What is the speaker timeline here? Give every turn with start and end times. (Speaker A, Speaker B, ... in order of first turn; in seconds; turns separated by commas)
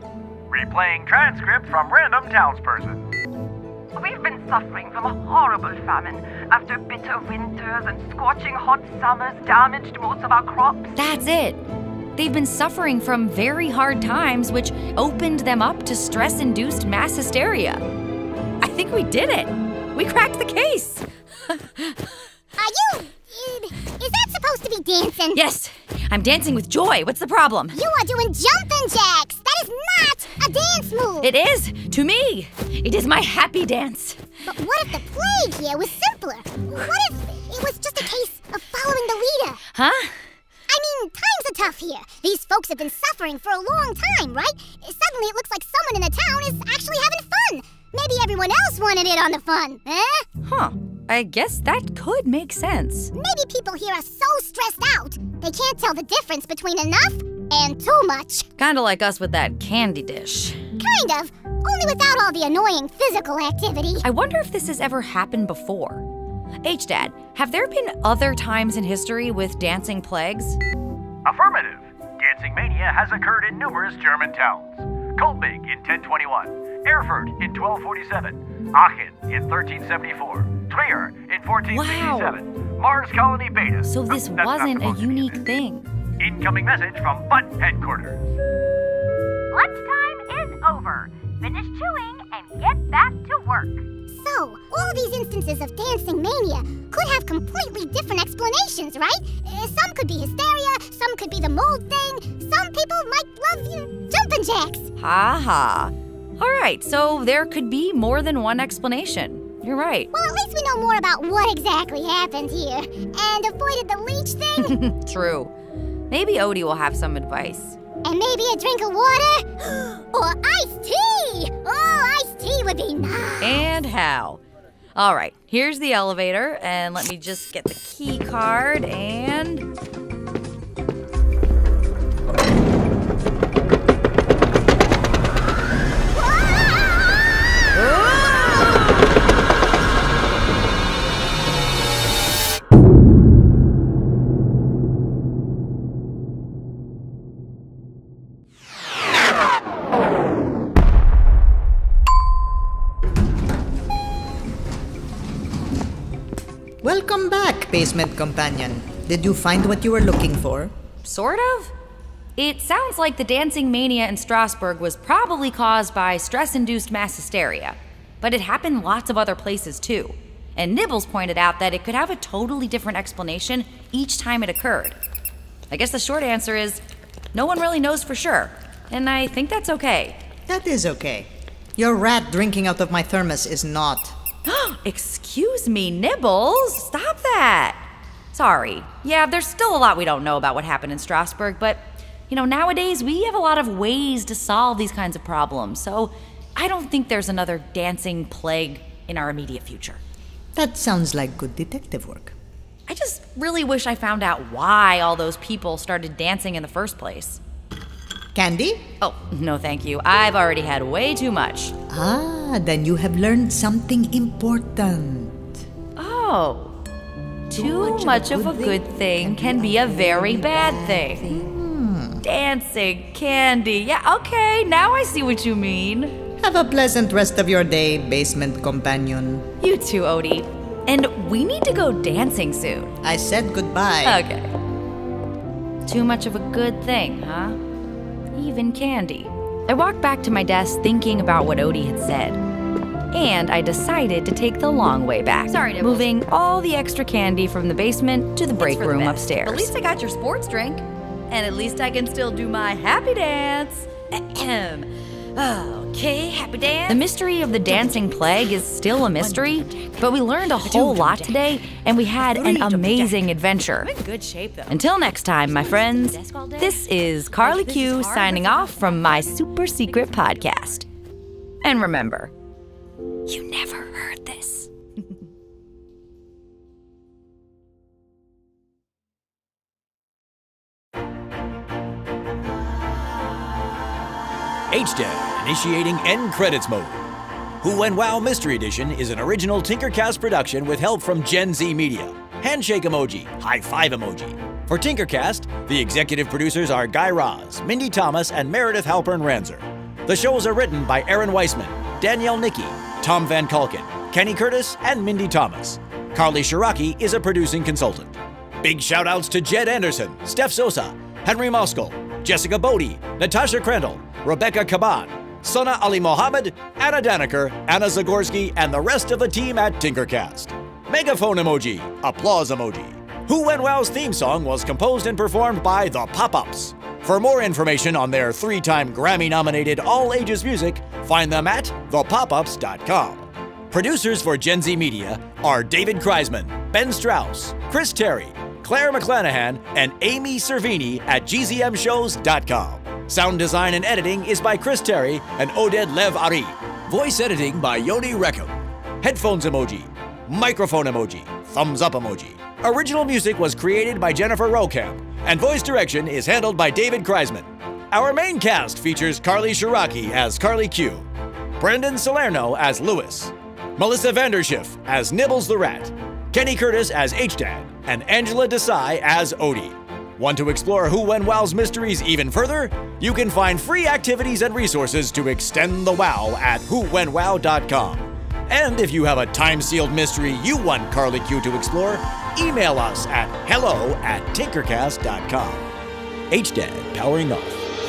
Speaker A: 0.5-3.0, Speaker B: 4.0-11.0, Speaker C: 10.9-11.6, Speaker C: 12.2-17.8, Speaker C: 18.6-22.0, Speaker D: 22.6-25.4, Speaker C: 25.3-27.8, Speaker D: 27.7-31.3, Speaker C: 31.2-34.2, Speaker D: 34.5-39.6, Speaker C: 39.7-40.3, Speaker D: 40.7-50.2, Speaker C: 50.4-53.1, Speaker D: 53.1-58.5, Speaker C: 58.6-60.6, Speaker D: 60.8-64.1, Speaker C: 64.0-66.0, Speaker C: 66.6-70.6, Speaker A: 71.2-85.4, Speaker C: 81.7-82.3, Speaker C: 83.9-85.9, Speaker A: 86.2-88.4, Speaker E: 89.5-93.8, Speaker D: 94.1-104.9, Speaker C: 105.0-110.1, Speaker D: 110.1-114.8, Speaker C: 114.6-115.5, Speaker C: 116.1-117.8, Speaker D: 118.0-123.7, Speaker C: 123.4-124.4, Speaker C: 125.0-129.7, Speaker F: 156.8-160.7, Speaker C: 161.0-161.7, Speaker C: 162.4-175.0, Speaker C: 175.7-176.8, Speaker C: 177.3-180.2, Speaker F: 180.5-184.2, Speaker C: 184.4-187.8, Speaker C: 188.3-200.0, Speaker F: 200.5-202.3, Speaker C: 202.9-207.4, Speaker F: 208.3-208.8, Speaker C: 209.0-211.7, Speaker F: 211.9-215.5, Speaker C: 216.0-216.7, Speaker C: 217.5-221.4, Speaker F: 217.5-222.2, Speaker C: 222.2-226.1, Speaker F: 226.4-229.4, Speaker C: 229.6-232.9, Speaker F: 233.0-234.2, Speaker C: 234.0-234.5, Speaker C: 235.8-237.6, Speaker C: 238.3-242.4, Speaker C: 243.1-249.7, Speaker E: 245.5-246.1, Speaker E: 248.5-252.6, Speaker E: 254.1-258.1, Speaker C: 256.9-263.9, Speaker E: 259.2-261.5, Speaker F: 262.2-263.2, Speaker E: 263.8-269.4, Speaker C: 264.7-270.8, Speaker C: 271.6-272.3, Speaker C: 273.3-274.7, Speaker A: 284.7-287.0, Speaker A: 287.6-361.1, Speaker A: 361.6-385.6, Speaker A: 386.3-387.6